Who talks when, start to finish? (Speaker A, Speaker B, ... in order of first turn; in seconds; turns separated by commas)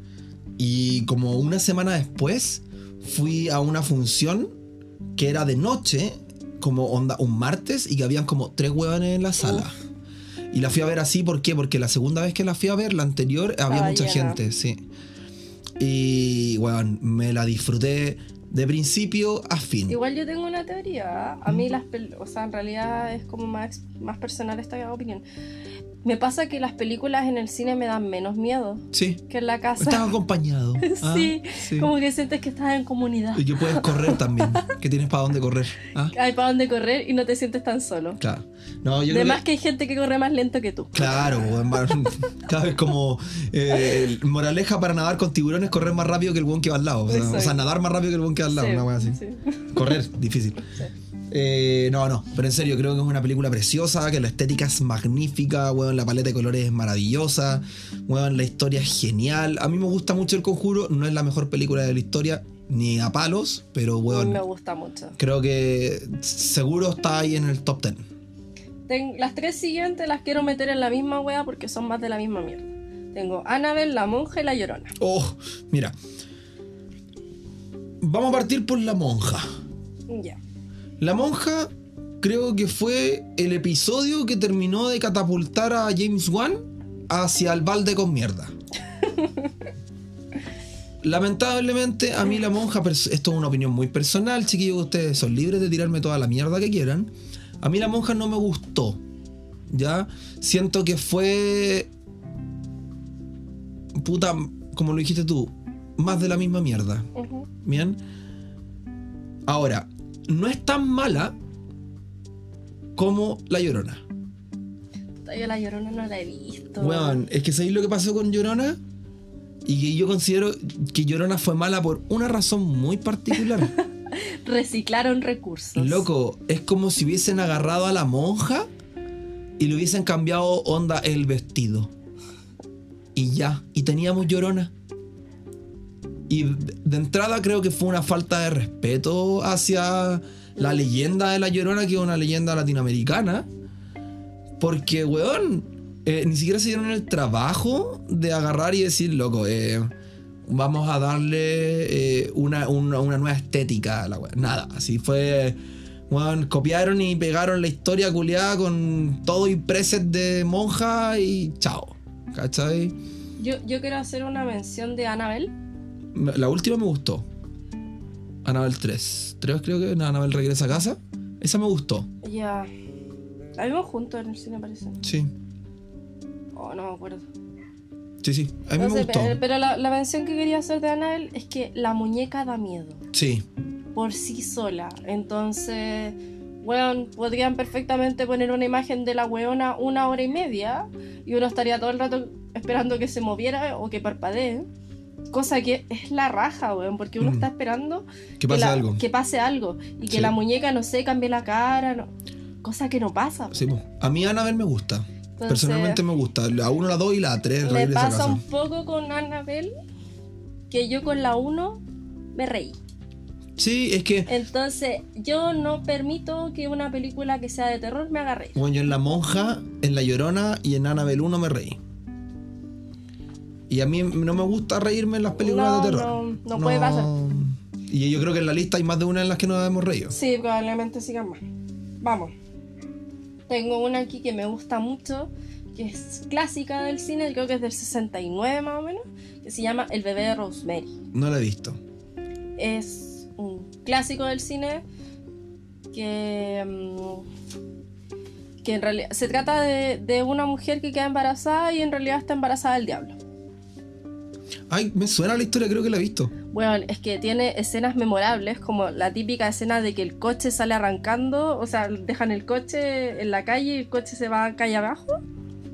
Speaker A: 0.6-4.5, Speaker A: 5.2-9.8, Speaker B: 9.4-9.7, Speaker A: 10.5-14.8, Speaker B: 13.7-14.4, Speaker A: 15.8-20.0, Speaker B: 19.9-25.2, Speaker B: 26.0-30.1, Speaker A: 28.9-29.2, Speaker A: 29.8-31.9, Speaker B: 30.8-34.7, Speaker A: 33.3-36.1, Speaker B: 36.1-38.2, Speaker A: 38.2-39.4, Speaker B: 39.1-41.6, Speaker A: 40.9-49.2, Speaker B: 43.8-44.0, Speaker B: 47.1-47.6, Speaker B: 48.5-50.0, Speaker A: 49.7-50.7, Speaker A: 51.3-64.4, Speaker B: 64.1-65.2, Speaker A: 65.2-68.0, Speaker B: 68.9-75.0, Speaker A: 75.0-75.9, Speaker A: 78.0-79.5, Speaker B: 80.1-80.4, Speaker A: 81.0-81.7, Speaker A: 82.2-88.5, Speaker B: 89.0-89.5, Speaker A: 91.0-99.0, Speaker A: 99.7-101.9, Speaker A: 104.0-107.1, Speaker B: 107.2-107.5, Speaker A: 107.6-108.0, Speaker A: 109.5-111.3, Speaker A: 113.0-114.0, Speaker B: 115.3-117.2, Speaker A: 116.8-118.8, Speaker A: 119.7-123.7, Speaker B: 124.1-126.1, Speaker A: 125.8-128.7, Speaker A: 129.6-131.9, Speaker A: 133.2-134.7, Speaker A: 136.3-143.5, Speaker A: 144.6-149.9, Speaker A: 150.5-155.6, Speaker A: 156.1-162.9, Speaker B: 163.4-165.5, Speaker A: 166.1-167.2, Speaker A: 168.4-172.1, Speaker B: 172.2-172.7, Speaker B: 173.6-175.0, Speaker A: 175.0-175.3, Speaker B: 176.6-177.3, Speaker A: 178.2-179.4, Speaker B: 178.8-183.0, Speaker A: 183.1-183.4, Speaker B: 183.9-194.7, Speaker B: 195.3-202.1, Speaker A: 197.2-197.5, Speaker A: 198.4-199.0, Speaker A: 200.1-200.3, Speaker B: 202.6-203.6, Speaker A: 203.5-208.4, Speaker B: 205.4-206.0, Speaker B: 207.6-209.7, Speaker B: 210.7-211.8, Speaker B: 212.3-212.8, Speaker A: 213.6-214.3, Speaker B: 214.3-218.6, Speaker A: 218.6-221.8, Speaker A: 223.7-230.1, Speaker B: 225.4-227.1, Speaker B: 230.1-231.4, Speaker B: 232.0-232.3, Speaker B: 233.5-240.9, Speaker A: 241.1-241.8, Speaker B: 242.6-244.8, Speaker B: 245.9-247.3, Speaker B: 248.6-253.2, Speaker A: 254.7-256.3, Speaker B: 256.5-265.2